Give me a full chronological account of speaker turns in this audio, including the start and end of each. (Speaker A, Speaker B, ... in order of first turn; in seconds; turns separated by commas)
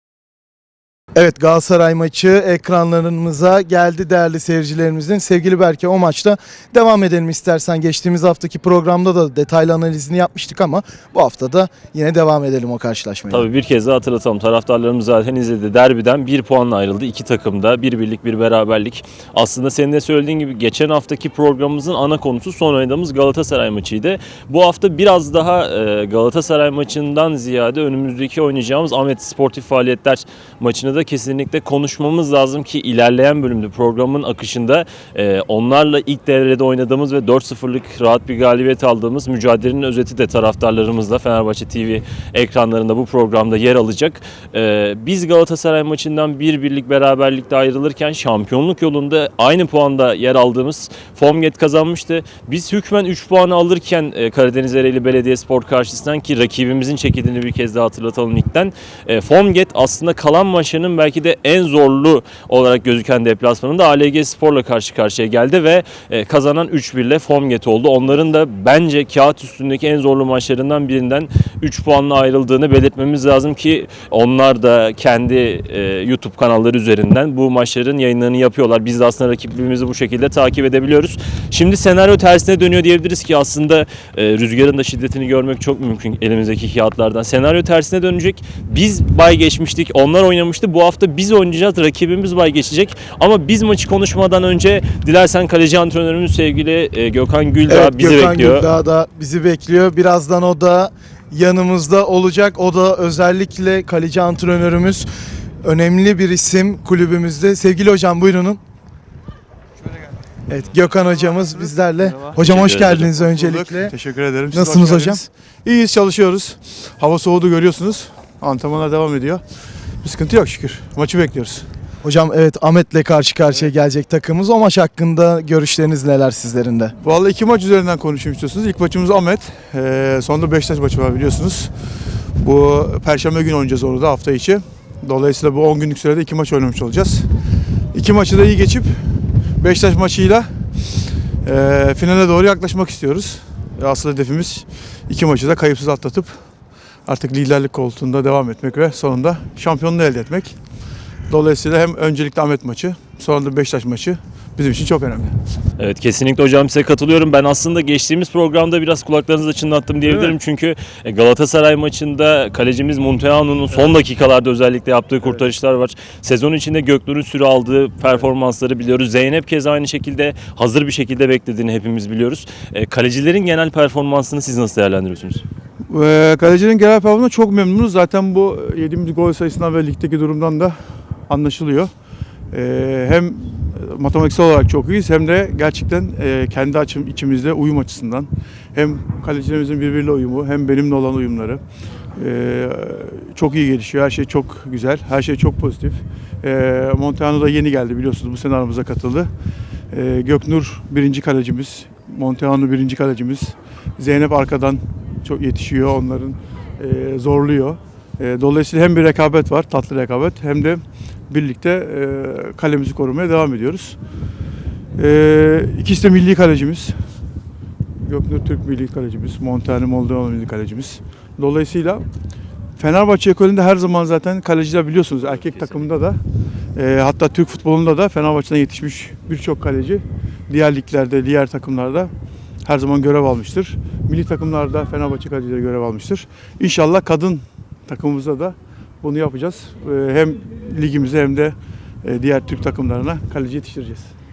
Speaker A: 1.1-13.5, Speaker B: 13.3-98.7, Speaker A: 97.7-105.1, Speaker A: 105.6-108.6, Speaker A: 110.5-114.0, Speaker C: 112.0-119.4, Speaker B: 112.5-113.0, Speaker A: 114.5-115.2, Speaker C: 120.0-121.7, Speaker A: 122.0-126.9, Speaker C: 127.0-131.7, Speaker C: 132.4-137.3, Speaker C: 137.9-139.1, Speaker C: 139.6-140.5, Speaker C: 141.4-146.4, Speaker C: 147.1-150.6, Speaker C: 151.3-155.4, Speaker B: 155.8-175.4, Speaker C: 160.1-160.3, Speaker C: 175.9-180.8, Speaker C: 181.3-181.9, Speaker C: 182.5-191.6, Speaker C: 192.2-199.3, Speaker C: 199.9-214.0, Speaker C: 215.0-217.0, Speaker C: 218.0-222.1, Speaker C: 222.8-226.2, Speaker C: 226.8-232.1, Speaker C: 232.7-244.1